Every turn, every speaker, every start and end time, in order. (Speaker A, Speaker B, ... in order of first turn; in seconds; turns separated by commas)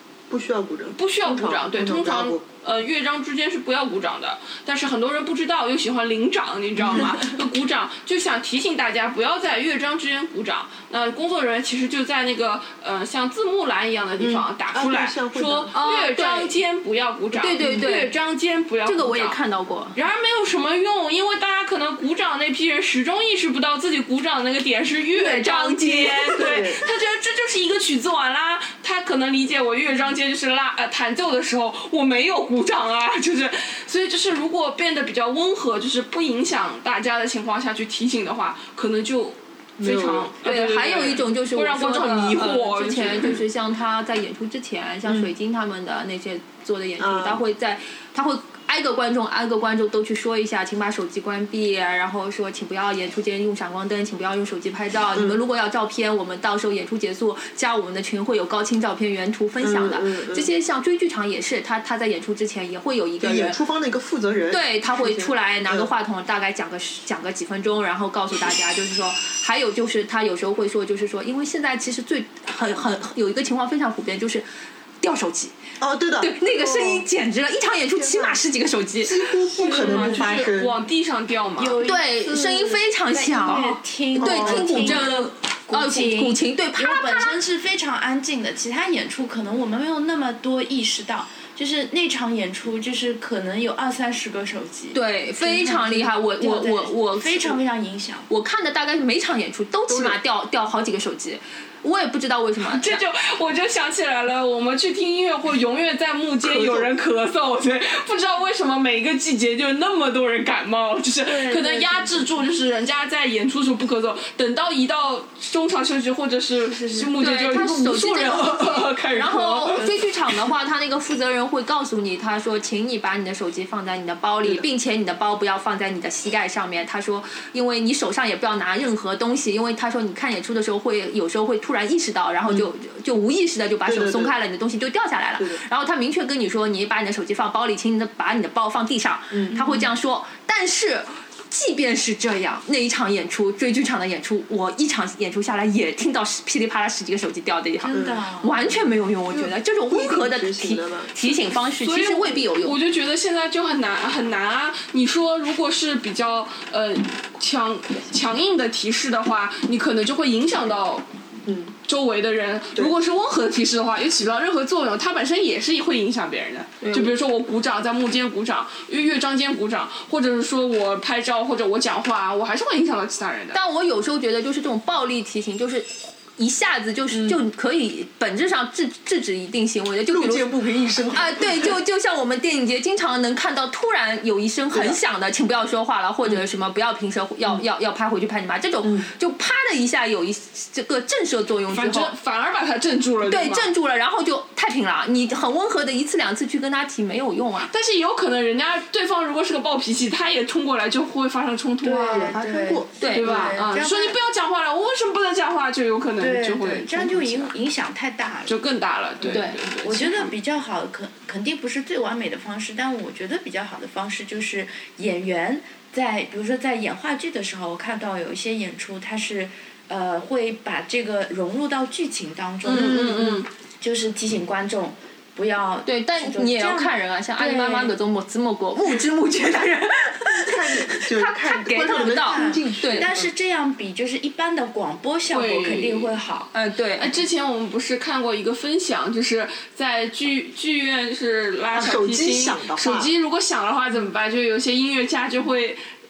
Speaker A: 0.3-2.4, Speaker B: 0.9-19.4, Speaker A: 6.8-7.1, Speaker A: 14.2-15.7, Speaker C: 15.7-16.5, Speaker C: 17.3-18.1, Speaker C: 18.9-20.0, Speaker B: 19.9-43.4, Speaker C: 25.1-26.7, Speaker A: 26.4-26.8, Speaker A: 39.8-40.3, Speaker C: 40.4-63.6, Speaker A: 45.0-45.3, Speaker A: 47.0-47.4, Speaker A: 59.6-60.5, Speaker A: 63.2-65.9, Speaker C: 64.5-74.5, Speaker C: 75.0-75.6, Speaker A: 75.8-77.1, Speaker C: 76.2-79.3, Speaker A: 77.9-78.4, Speaker A: 79.0-80.8, Speaker D: 79.6-80.3, Speaker B: 79.6-81.8, Speaker D: 81.6-98.3, Speaker C: 81.8-87.4, Speaker A: 84.2-85.1, Speaker C: 94.9-97.6, Speaker C: 98.3-103.0, Speaker A: 99.9-100.2, Speaker B: 102.6-120.0, Speaker A: 106.4-106.9, Speaker D: 111.2-112.3, Speaker D: 116.7-117.1, Speaker C: 117.2-152.8, Speaker A: 133.9-134.3, Speaker A: 139.3-139.8, Speaker D: 147.8-148.8, Speaker A: 147.9-148.2, Speaker A: 149.3-151.4, Speaker B: 151.8-161.1, Speaker A: 161.5-161.8, Speaker B: 161.8-173.6, Speaker C: 166.8-167.1, Speaker C: 173.5-180.5, Speaker A: 177.1-177.4, Speaker A: 180.1-181.8, Speaker C: 181.1-192.1, Speaker A: 184.7-185.0, Speaker A: 188.8-189.1, Speaker B: 191.7-193.7, Speaker C: 193.2-197.7, Speaker B: 197.7-202.4, Speaker D: 201.8-204.2, Speaker A: 202.1-203.0, Speaker C: 203.0-203.5, Speaker B: 203.1-207.5, Speaker D: 206.2-208.6, Speaker B: 208.5-210.3, Speaker D: 209.2-223.1, Speaker C: 209.3-209.6, Speaker B: 222.6-223.5, Speaker A: 222.7-223.3, Speaker D: 223.8-227.9, Speaker C: 225.8-233.1, Speaker A: 230.4-233.3, Speaker D: 231.9-236.5, Speaker B: 235.3-236.1, Speaker C: 236.5-237.1, Speaker B: 237.0-245.8, Speaker A: 241.7-243.1